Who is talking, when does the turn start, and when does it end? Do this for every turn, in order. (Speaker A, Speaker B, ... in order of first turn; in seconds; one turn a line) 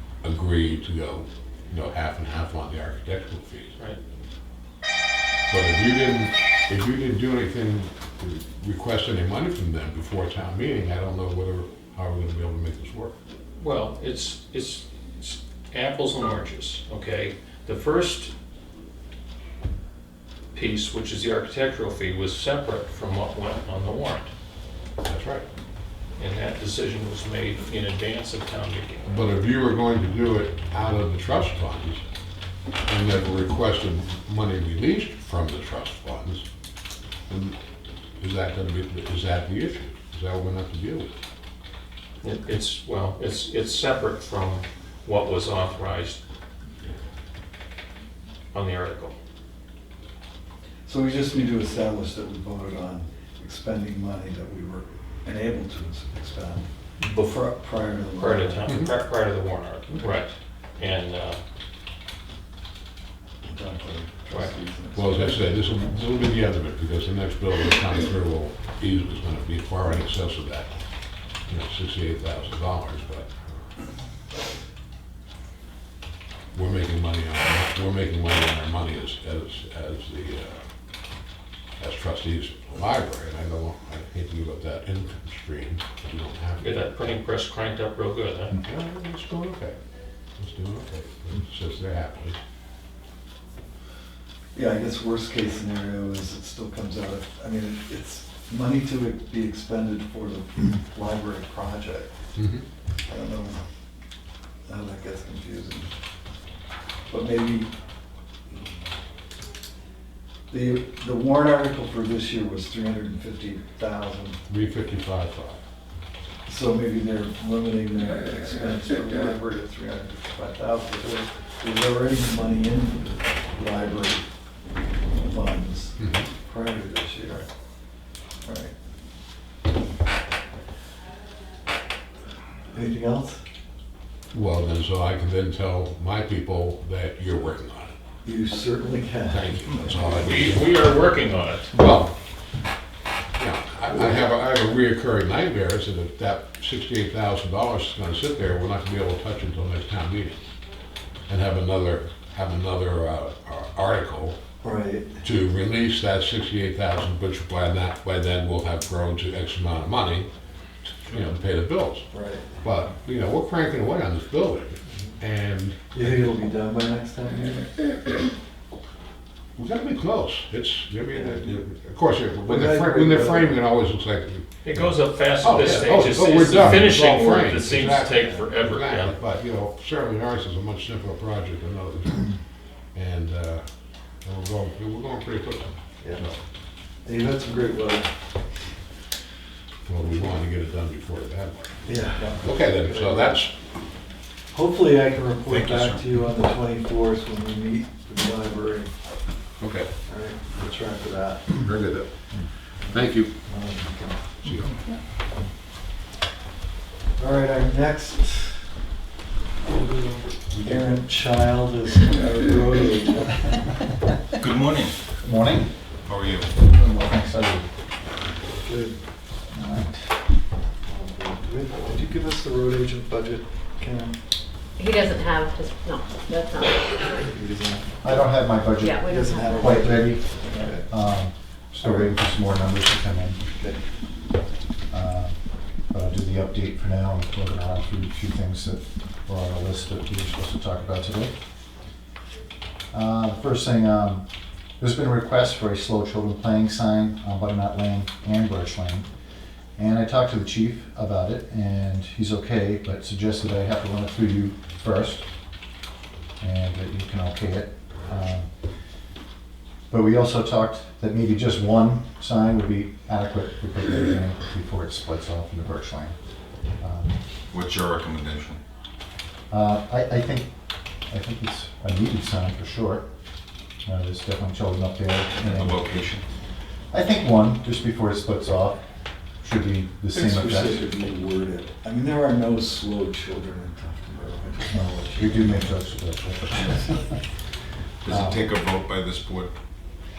Speaker A: 0.2-3.7
Speaker A: 5.5-13.2
Speaker B: 13.6-18.3
Speaker B: 20.5-24.3
Speaker A: 25.0-25.4
Speaker B: 26.2-29.2
Speaker A: 29.1-32.0
Speaker A: 32.9-36.5
Speaker A: 37.3-37.6
Speaker A: 38.2-41.1
Speaker B: 42.2-46.2
Speaker B: 48.5-49.1
Speaker C: 50.9-58.8
Speaker B: 57.0-57.3
Speaker B: 58.2-61.4
Speaker C: 63.4-65.6
Speaker B: 64.3-64.5
Speaker A: 64.9-70.7
Speaker A: 71.5-73.3
Speaker A: 76.5-80.6
Speaker A: 81.8-86.9
Speaker B: 86.6-88.6
Speaker A: 88.6-89.8
Speaker A: 90.4-92.4
Speaker C: 94.5-102.1
Speaker A: 102.4-102.6
Speaker C: 103.1-103.6
Speaker C: 104.7-105.9
Speaker C: 107.1-107.7
Speaker C: 110.5-114.4
Speaker A: 114.5-115.6
Speaker C: 116.5-124.2
Speaker C: 125.2-127.5
Speaker A: 126.0-126.3
Speaker C: 128.4-128.7
Speaker C: 132.7-133.4
Speaker A: 134.3-137.9
Speaker C: 138.2-139.5
Speaker A: 139.3-140.7
Speaker B: 140.0-141.7
Speaker A: 141.7-142.1
Speaker A: 143.4-150.4
Speaker A: 151.3-154.4
Speaker C: 154.6-155.2
Speaker A: 155.2-160.3
Speaker A: 161.1-162.1
Speaker C: 162.1-162.5
Speaker A: 162.6-166.3
Speaker C: 165.9-167.7
Speaker A: 169.6-182.3
Speaker C: 171.1-171.6
Speaker C: 172.4-173.6
Speaker B: 174.6-179.2
Speaker A: 182.9-183.7
Speaker A: 184.2-186.3
Speaker C: 186.0-186.3
Speaker C: 187.1-188.1
Speaker A: 189.9-193.5
Speaker C: 191.9-193.4
Speaker C: 194.5-198.9
Speaker D: 195.5-196.0
Speaker A: 199.6-199.9
Speaker C: 200.1-201.7
Speaker A: 201.6-202.1
Speaker C: 202.9-204.2
Speaker A: 202.9-203.3
Speaker A: 204.4-204.7
Speaker C: 207.2-208.7
Speaker C: 209.7-213.5
Speaker D: 214.4-215.0
Speaker E: 215.1-215.7
Speaker D: 216.1-216.5
Speaker E: 216.5-217.7
Speaker C: 218.6-219.0
Speaker E: 219.5-220.2
Speaker C: 220.8-224.2
Speaker F: 224.8-227.3
Speaker C: 227.2-228.0
Speaker E: 228.0-230.3
Speaker F: 228.8-229.6
Speaker C: 229.0-230.9
Speaker E: 230.9-233.4
Speaker C: 231.8-232.1
Speaker C: 233.5-233.8
Speaker E: 234.9-241.3
Speaker E: 242.9-244.3
Speaker E: 244.8-249.1
Speaker E: 249.8-255.3
Speaker E: 256.4-258.5
Speaker E: 259.9-266.1
Speaker E: 266.8-267.2
Speaker D: 267.5-268.6
Speaker E: 269.5-270.5
Speaker E: 271.1-273.1
Speaker E: 273.8-276.0
Speaker D: 275.4-276.2
Speaker E: 276.9-278.9
Speaker E: 279.4-280.9
Speaker C: 280.1-285.7
Speaker E: 284.7-287.2
Speaker D: 288.0-289.5
Speaker E: 288.1-288.5